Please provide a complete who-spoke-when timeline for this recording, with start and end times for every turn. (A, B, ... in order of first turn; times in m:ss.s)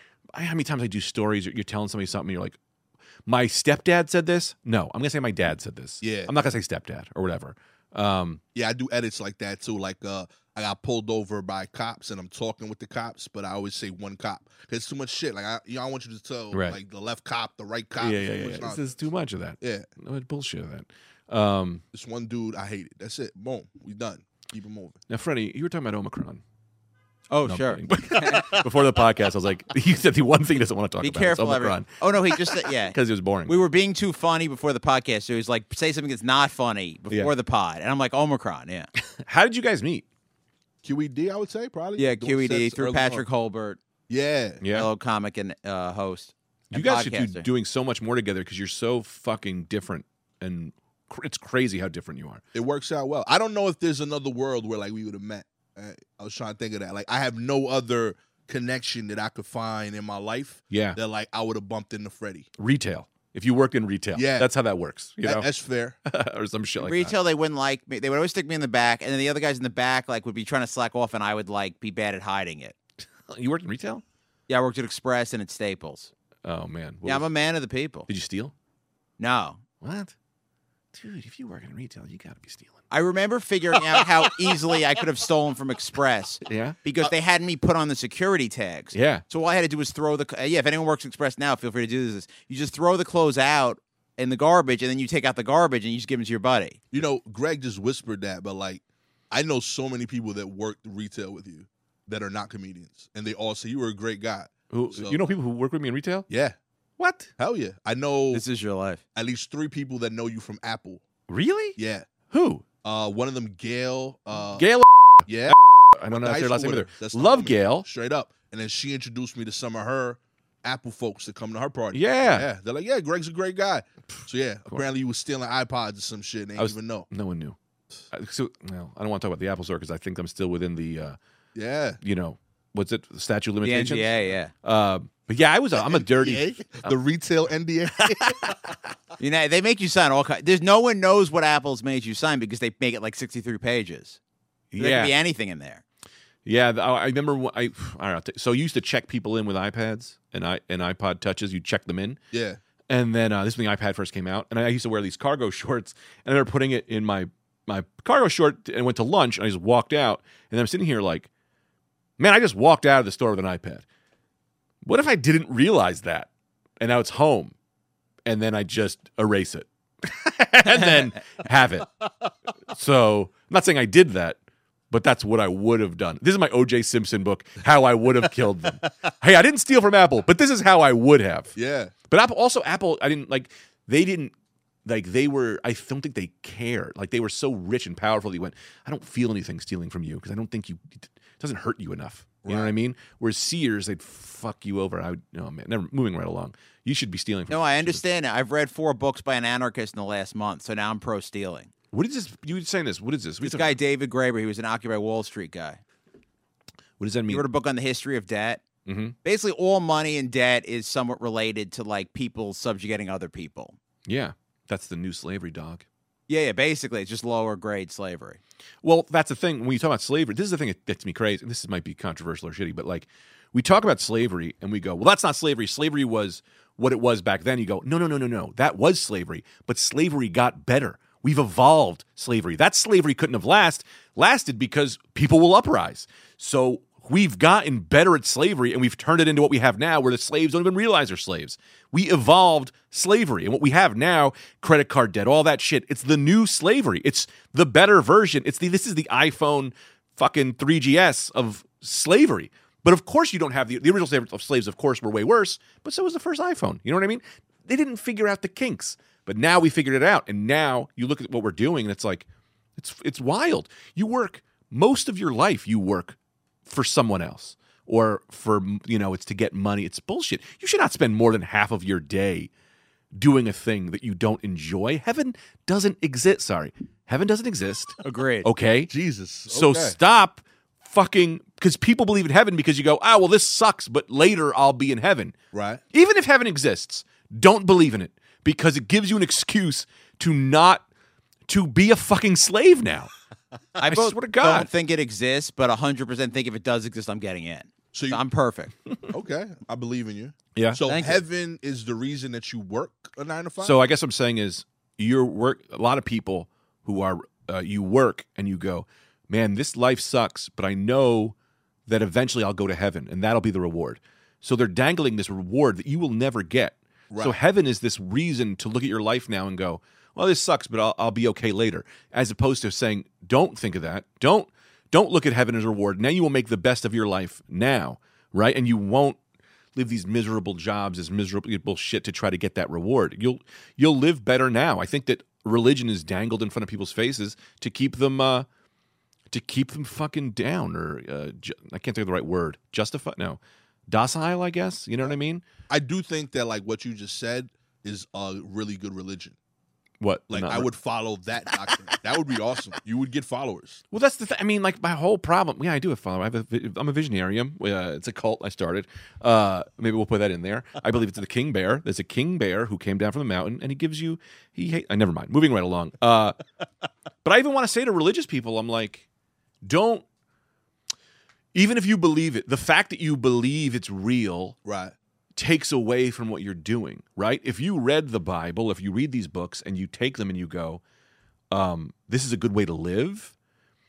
0:00.3-0:02.6 A
0:03.3-0:08.4 A
0:06.0-0:06.3 B
0:08.6-0:18.9 B
0:16.5-0:16.8 A
0:18.0-0:21.8 A
0:19.6-0:19.9 B
0:21.9-0:25.0 B
0:25.1-0:26.4 A
0:27.3-0:28.6 C
0:27.4-0:33.6 A
0:31.0-0:38.9 C
0:39.2-0:40.0 A
0:40.8-0:43.2 B
0:42.0-0:43.8 C
0:44.1-0:44.6 B
0:44.6-0:44.9 A
0:44.7-0:47.5 C
0:46.7-0:52.4 A
0:52.5-1:02.5 B
1:00.7-1:01.0 A
1:02.6-1:05.5 A
1:04.1-1:04.5 B
1:05.2-1:06.0 B
1:06.1-1:07.2 A
1:06.8-1:12.8 C
1:13.3-1:14.0 A
1:14.5-1:16.1 C
1:16.4-1:17.3 A
1:17.0-1:18.1 C
1:18.1-1:18.5 A
1:19.2-1:19.6 C
1:19.8-1:20.1 A
1:20.9-1:22.7 A
1:22.9-1:36.8 C
1:26.4-1:26.8 A
1:28.9-1:29.2 A
1:36.9-1:45.2 B
1:44.7-1:46.3 A
1:46.3-1:46.6 B
1:47.0-1:47.3 A
1:47.4-1:48.4 B
1:48.3-1:49.0 C
1:49.2-1:51.0 B
1:51.3-1:51.8 A
1:51.8-1:52.1 B
1:52.3-1:52.6 A
1:52.8-1:54.7 B
1:54.6-1:57.9 A
1:55.3-1:55.6 B
1:56.1-2:07.1 B
2:01.9-2:02.5 A
2:06.6-2:07.6 A
2:08.1-2:11.2 A
2:11.6-2:12.0 B
2:12.0-2:16.9 A
2:13.6-2:14.5 C
2:15.7-2:18.6 B
2:18.1-2:18.6 A
2:19.2-2:24.2 C
2:24.7-2:25.1 A
2:24.8-2:25.8 C
2:26.4-2:32.2 A
2:32.3-2:32.6 B
2:32.9-2:41.3 A
2:42.2-2:43.8 A
2:44.8-2:47.5 A
2:48.3-2:51.9 A
2:52.7-2:54.4 A
2:54.9-3:01.6 A
3:01.6-3:01.9 B
3:02.1-3:04.3 A
3:04.8-3:18.0 A
3:12.4-3:12.7 B
3:17.5-3:21.7 C
3:21.9-3:23.8 A
3:23.4-3:25.8 C
3:27.0-3:27.4 A
3:27.3-3:28.6 C
3:28.9-3:29.2 A
3:29.2-3:33.8 C
3:34.1-3:35.8 A
3:36.3-3:38.4 C
3:38.8-4:22.3 A
4:22.8-4:32.5 A
4:33.2-4:38.9 A
4:38.0-4:38.5 C
4:38.9-4:40.0 B
4:39.5-4:45.4 A
4:45.5-4:45.8 B
4:45.9-4:50.8 A
4:51.5-4:53.1 A
4:53.8-4:58.7 C
4:53.8-4:54.7 A
4:57.9-4:58.2 B
4:59.1-5:03.8 B
5:00.6-5:00.8 A
5:00.9-5:01.2 C
5:03.6-5:11.4 A
5:11.9-5:29.2 A
5:17.1-5:17.4 B
5:29.8-5:38.5 A
5:39.3-5:45.4 A
5:45.7-5:49.4 B
5:50.0-5:50.7 A
5:50.3-5:53.8 B
5:53.9-6:06.4 A
6:07.2-6:09.0 A
6:09.6-6:10.0 A
6:11.5-6:14.6 A
6:14.6-6:14.9 B
6:15.4-6:20.8 A
6:21.5-6:23.3 A